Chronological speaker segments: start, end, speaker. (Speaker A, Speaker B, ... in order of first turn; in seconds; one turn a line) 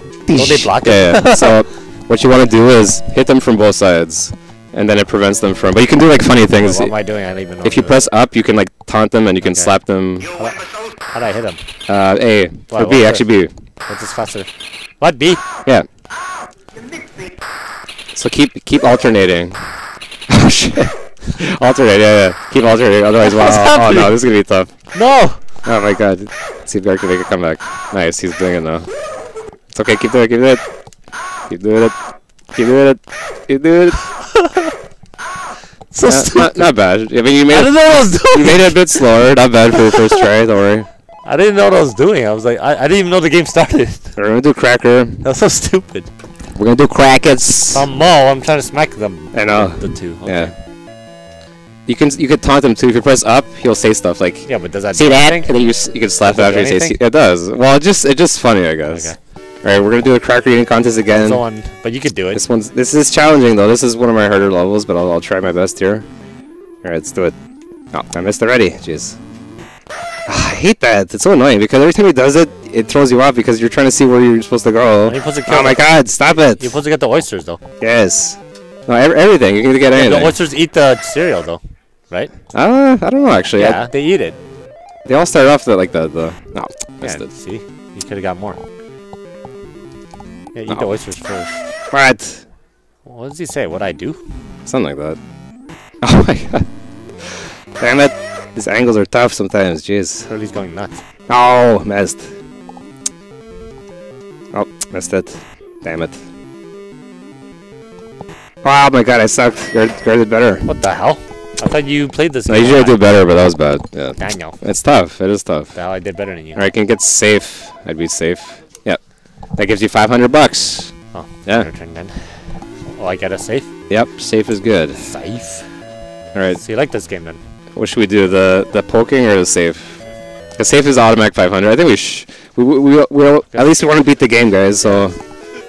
Speaker A: 0.2-7.0
Speaker B: 0.3-1.6
Speaker B: 6.6-8.0
Speaker A: 7.6-10.3
Speaker B: 9.4-9.7
Speaker B: 10.3-11.6
Speaker A: 11.9-13.5
Speaker B: 12.7-13.3
Speaker B: 13.9-15.4
Speaker A: 18.1-24.7
Speaker B: 23.2-24.2
Speaker B: 24.9-25.4
Speaker A: 25.6-28.9
Speaker A: 29.7-30.6
Speaker A: 31.5-32.0
Speaker A: 32.5-34.1
Speaker B: 34.4-34.6
Speaker B: 35.9-36.7
Speaker A: 36.1-40.9
Speaker B: 37.5-39.1
Speaker B: 39.8-40.2
Speaker B: 41.3-44.2
Speaker A: 44.2-45.2
Speaker B: 45.2-46.1
Speaker A: 46.5-47.9
Speaker B: 47.6-50.5
Speaker A: 49.3-50.5
Speaker A: 51.9-61.4
Speaker B: 54.5-55.5
Speaker B: 56.2-57.0
Speaker B: 58.9-59.2
Speaker B: 61.1-62.4
Speaker A: 62.3-66.1
Speaker A: 66.8-67.4
Speaker A: 67.9-69.2
Speaker A: 70.3-76.7
Speaker B: 75.1-75.9
Speaker B: 76.6-77.6
Speaker A: 77.8-80.4
Speaker B: 79.9-82.3
Speaker A: 82.5-83.9
Speaker B: 83.5-84.4
Speaker A: 85.1-87.3
Speaker B: 87.0-88.6
Speaker B: 90.5-91.7
Speaker A: 91.9-92.5
Speaker B: 93.1-94.2
Speaker A: 94.7-95.2
Speaker A: 96.0-96.7
Speaker A: 97.2-100.3
Speaker B: 100.3-101.0
Speaker A: 101.3-102.3
Speaker A: 104.5-106.2
Speaker A: 108.6-110.7
Speaker B: 110.7-113.0
Speaker A: 112.5-115.8
Speaker B: 114.2-114.6
Speaker B: 115.7-116.6
Speaker A: 116.5-121.7
Speaker B: 121.1-123.7
Speaker A: 123.9-125.1
Speaker B: 125.0-125.7
Speaker A: 126.3-126.6
Speaker B: 126.6-127.4
Speaker A: 127.7-130.0
Speaker A: 130.6-135.2
Speaker B: 134.8-135.1